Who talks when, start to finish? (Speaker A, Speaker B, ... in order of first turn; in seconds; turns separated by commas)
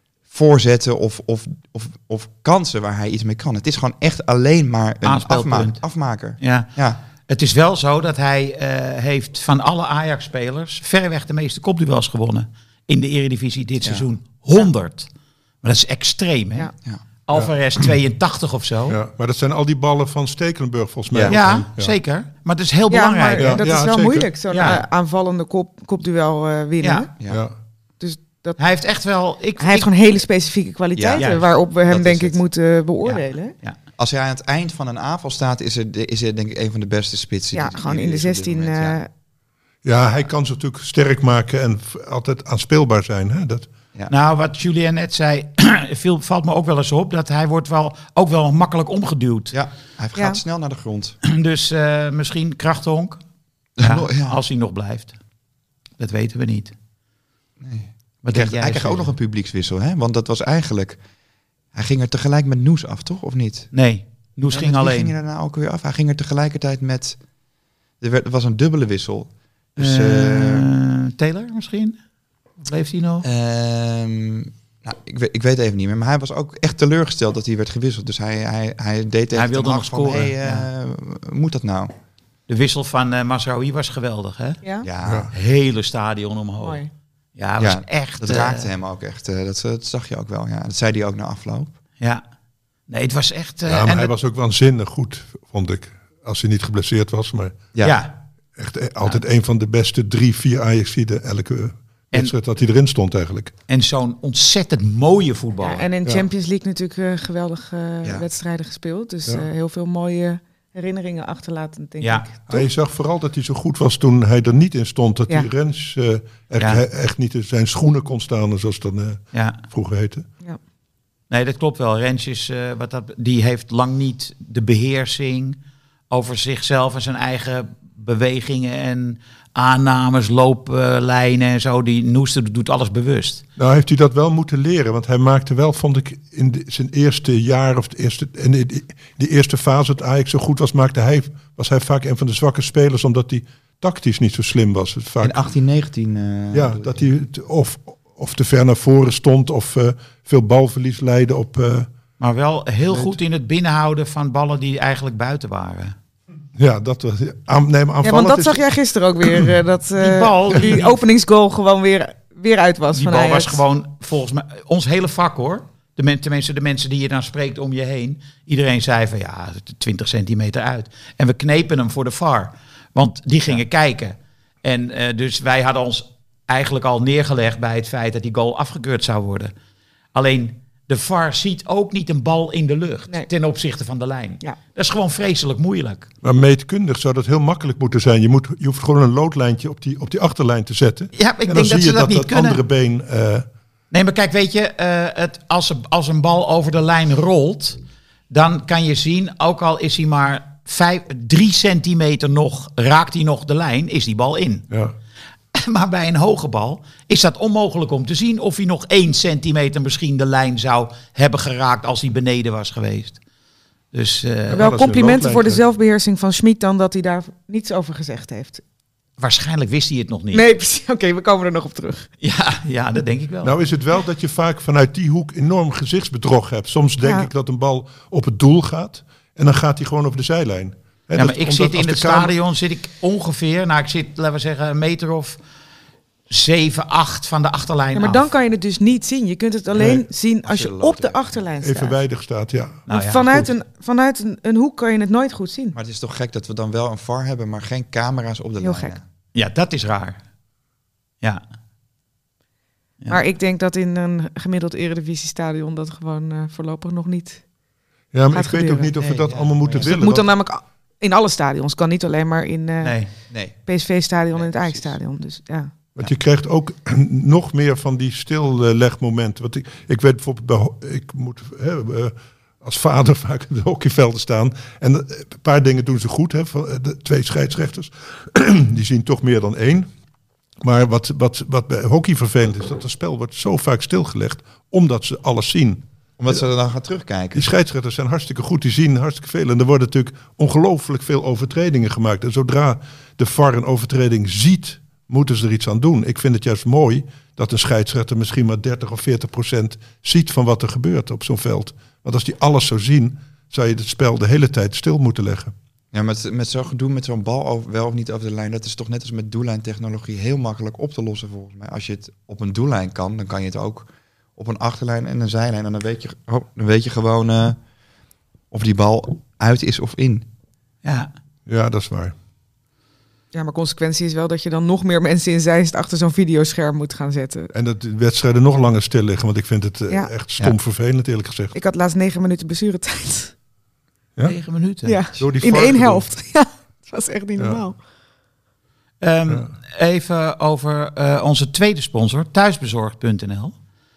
Speaker A: 0.3-7.0, Speaker B: 5.0-5.8, Speaker B: 6.4-6.7, Speaker B: 7.2-15.1, Speaker B: 15.6-16.7, Speaker B: 17.2-19.0, Speaker C: 18.9-21.9, Speaker A: 21.1-21.4, Speaker B: 21.3-23.6, Speaker D: 22.9-27.1, Speaker C: 23.4-24.8, Speaker B: 24.5-24.8, Speaker B: 26.8-27.1, Speaker C: 27.3-27.5, Speaker D: 28.0-28.6, Speaker B: 28.6-29.9, Speaker D: 29.6-33.5, Speaker A: 30.9-32.4, Speaker B: 31.2-31.4, Speaker B: 33.0-33.8, Speaker A: 34.0-39.0, Speaker D: 37.5-39.1, Speaker C: 39.8-43.7, Speaker B: 44.1-49.5, Speaker A: 49.5-51.2, Speaker B: 51.2-53.2, Speaker A: 53.8-54.4, Speaker B: 53.8-55.1, Speaker B: 56.0-56.7, Speaker A: 57.6-61.0, Speaker B: 58.2-59.1, Speaker A: 61.7-63.7, Speaker B: 63.7-65.1, Speaker A: 64.5-67.2, Speaker A: 68.0-70.7, Speaker B: 69.8-72.0, Speaker B: 72.6-73.3, Speaker A: 73.2-81.9, Speaker B: 79.3-80.7, Speaker B: 82.5-84.6, Speaker D: 84.6-84.9, Speaker A: 84.8-85.3, Speaker C: 85.0-85.3, Speaker B: 85.3-86.8, Speaker D: 86.6-86.9, Speaker B: 87.3-88.7, Speaker A: 87.6-91.7, Speaker B: 92.9-94.1, Speaker C: 93.7-97.6, Speaker A: 97.7-98.0, Speaker B: 97.8-98.2, Speaker C: 98.5-103.5, Speaker B: 103.7-105.8, Speaker D: 105.6-112.7, Speaker B: 112.0-112.2, Speaker C: 112.5-120.2, Speaker B: 116.6-116.8, Speaker B: 119.3-119.6, Speaker B: 121.3-125.6, Speaker B: 126.1-133.4, Speaker C: 133.6-145.4, Speaker A: 145.2-147.1, Speaker C: 146.5-151.9, Speaker B: 152.2-155.9, Speaker C: 152.9-153.1, Speaker C: 156.6-158.6, Speaker D: 158.0-163.6, Speaker C: 159.2-159.5, Speaker B: 160.0-161.0, Speaker B: 162.9-179.5, Speaker B: 180.1-186.1, Speaker C: 186.2-193.4, Speaker B: 191.1-192.6, Speaker B: 193.9-197.8, Speaker B: 198.3-204.7, Speaker C: 204.7-204.9, Speaker B: 205.5-213.2, Speaker B: 213.9-214.7, Speaker C: 214.5-215.6, Speaker D: 214.5-218.6, Speaker B: 219.2-220.4, Speaker D: 220.3-222.1, Speaker B: 222.2-223.6, Speaker C: 223.4-232.3, Speaker D: 227.0-227.3, Speaker B: 231.2-235.4, Speaker B: 236.3-238.3, Speaker D: 237.9-242.0, Speaker C: 239.8-240.0, Speaker A: 240.4-241.3, Speaker C: 241.6-243.5, Speaker B: 242.9-243.4, Speaker D: 242.9-245.8, Speaker A: 245.7-249.0, Speaker D: 248.6-248.9, Speaker B: 249.3-250.2, Speaker D: 253.1-257.4, Speaker C: 258.1-260.3, Speaker D: 258.3-258.9, Speaker A: 259.0-259.9, Speaker D: 259.8-263.0, Speaker B: 262.8-263.1, Speaker A: 263.3-263.6, Speaker D: 263.6-265.7, Speaker A: 264.3-264.9, Speaker C: 265.9-279.9, Speaker C: 280.6-285.8, Speaker A: 286.2-287.5, Speaker C: 287.3-305.5, Speaker A: 305.9-317.6, Speaker A: 318.5-320.2, Speaker B: 320.8-321.1, Speaker C: 321.5-322.1, Speaker D: 323.3-327.5, Speaker C: 327.5-331.6, Speaker D: 331.5-333.3, Speaker B: 334.2-335.0, Speaker D: 334.8-337.8, Speaker C: 335.2-336.1, Speaker B: 339.0-343.5